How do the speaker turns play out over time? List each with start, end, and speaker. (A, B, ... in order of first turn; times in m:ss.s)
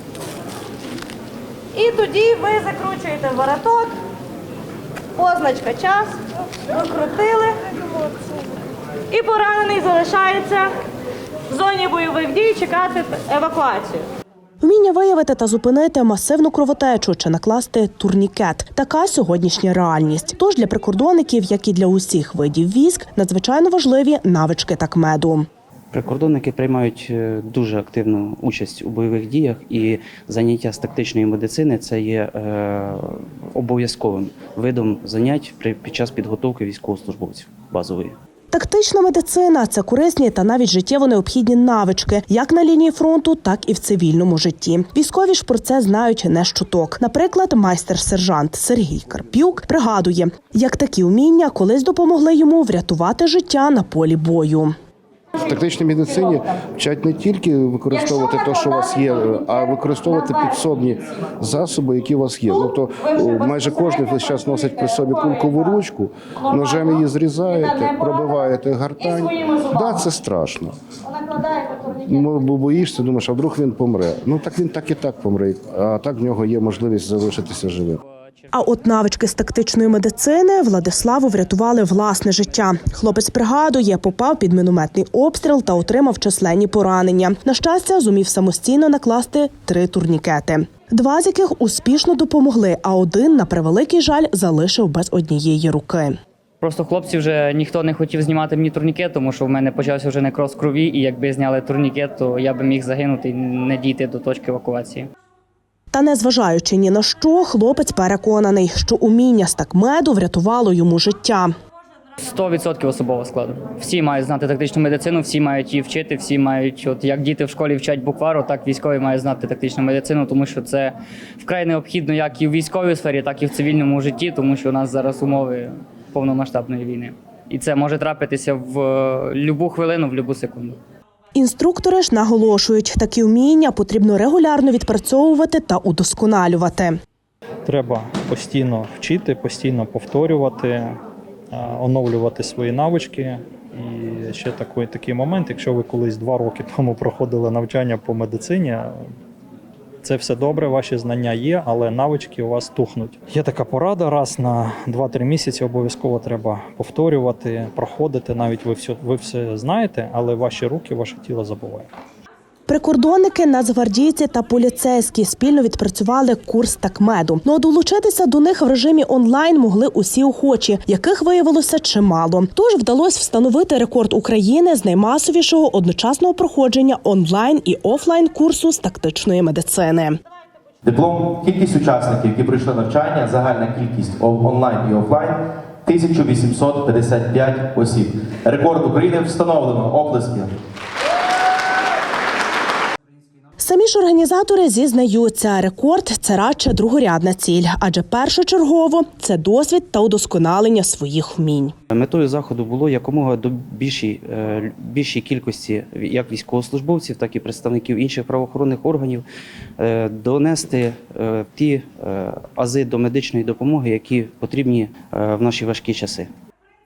0:01.7-0:04.0 A
0:05.2-0:06.2 A
0:06.7-0:07.6 A
0:09.1-0:10.7 A
0:11.5-0:14.0 A
0:14.6-0:25.5 B
0:25.9-0:38.1 C
0:38.5-0:54.7 B
0:55.3-1:10.8 D
1:11.3-1:18.0 D
1:18.5-1:36.1 B
1:36.6-1:45.1 E
1:45.9-1:51.5 B
1:52.2-2:10.8 E
2:11.3-2:17.0 B
2:17.6-2:21.0 F
2:21.5-2:28.9 F
2:30.0-2:41.9 F
2:42.7-3:00.2 B
3:00.8-3:10.5 G
3:13.6-3:21.7 B
3:21.9-3:29.2 C
3:29.8-3:36.3 C